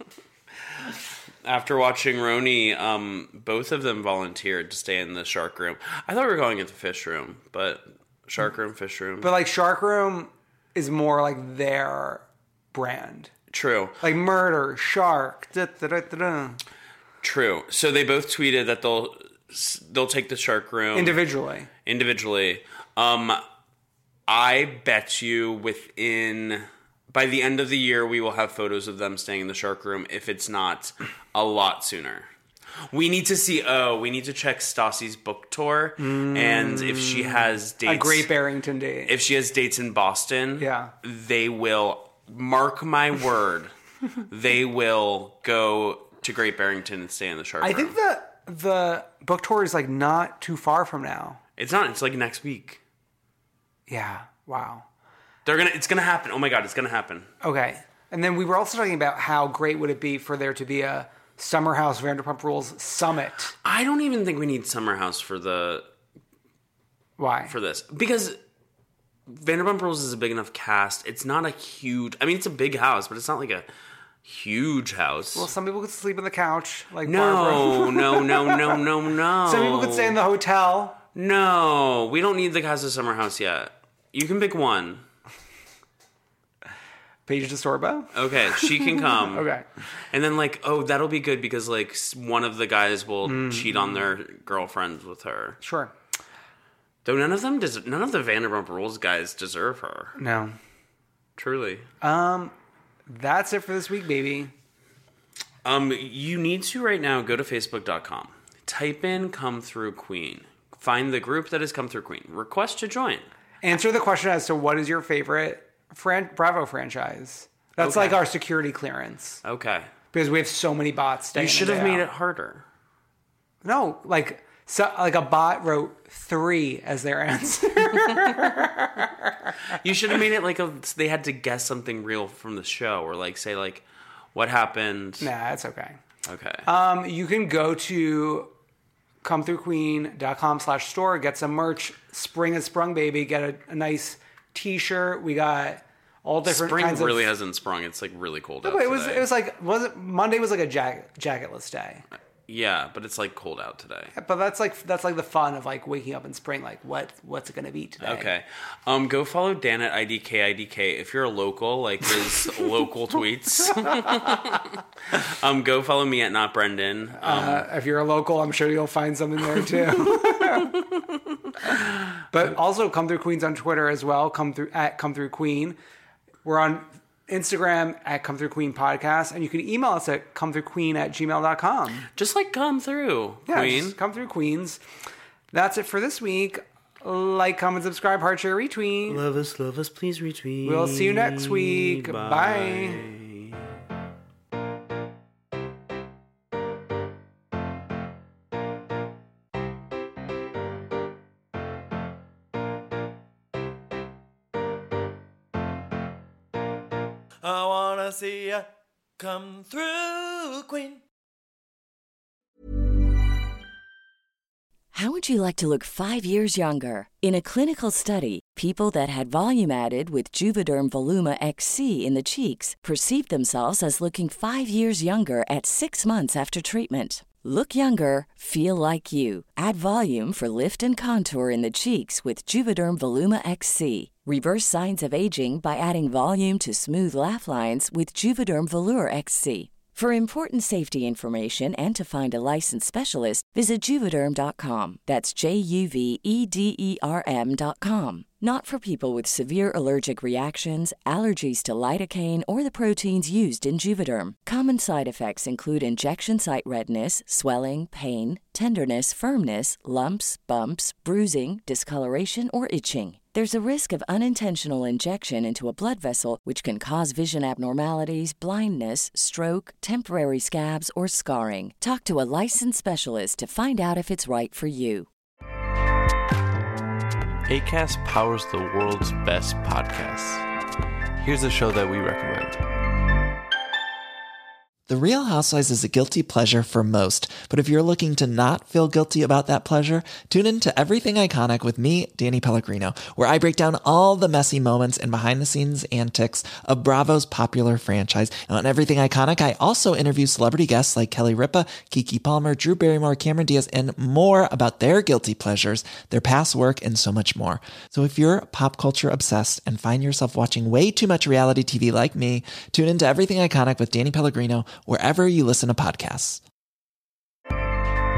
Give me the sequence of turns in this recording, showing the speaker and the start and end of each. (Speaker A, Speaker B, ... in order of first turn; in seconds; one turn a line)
Speaker A: 1.4-9.3
Speaker B: 9.2-13.3
Speaker A: 13.5-14.0
Speaker B: 14.0-16.6
Speaker A: 17.2-21.2
Speaker B: 20.9-21.7
Speaker A: 21.8-23.4
Speaker A: 24.3-32.3
Speaker A: 32.9-38.3
Speaker B: 36.0-39.1
Speaker A: 39.1-47.9
Speaker B: 40.6-40.9
Speaker B: 47.6-51.4
Speaker A: 51.6-52.8
Speaker B: 53.9-54.9
Speaker A: 55.4-57.3
Speaker B: 57.4-63.5
Speaker A: 63.6-65.9
Speaker B: 67.2-67.5
Speaker A: 67.5-68.4
Speaker A: 69.3-73.7
Speaker A: 74.2-75.5
Speaker B: 75.3-78.8
Speaker A: 77.0-80.2
Speaker B: 79.4-81.0
Speaker A: 81.1-85.0
Speaker B: 87.3-89.6
Speaker A: 88.1-89.5
Speaker A: 90.1-95.6
Speaker B: 93.2-94.0
Speaker B: 95.6-95.9
Speaker A: 97.0-100.2
Speaker B: 100.2-100.6
Speaker A: 101.4-101.9
Speaker B: 102.0-102.5
Speaker B: 103.1-104.5
Speaker A: 105.6-113.2
Speaker B: 113.6-119.4
Speaker A: 117.8-118.2
Speaker A: 119.4-119.9
Speaker B: 120.1-122.0
Speaker A: 121.3-122.6
Speaker B: 123.6-129.5
Speaker A: 129.7-133.8
Speaker A: 134.3-135.3
Speaker B: 135.2-136.0
Speaker A: 136.2-136.7
Speaker B: 136.6-138.5
Speaker B: 139.2-147.3
Speaker A: 146.4-149.3
Speaker B: 148.6-152.0
Speaker A: 152.5-154.1
Speaker B: 154.1-158.3
Speaker A: 158.0-167.7
Speaker B: 167.2-170.8
Speaker B: 172.3-175.8
Speaker B: 176.4-182.1
Speaker A: 182.2-184.0
Speaker B: 183.5-184.8
Speaker B: 185.5-189.2
Speaker A: 189.1-193.7
Speaker B: 190.6-193.0
Speaker C: 207.4-208.7
Speaker C: 209.2-211.0
Speaker D: 214.9-275.1
Speaker E: 277.4-280.4
Speaker E: 281.2-282.6
Speaker F: 284.9-316.4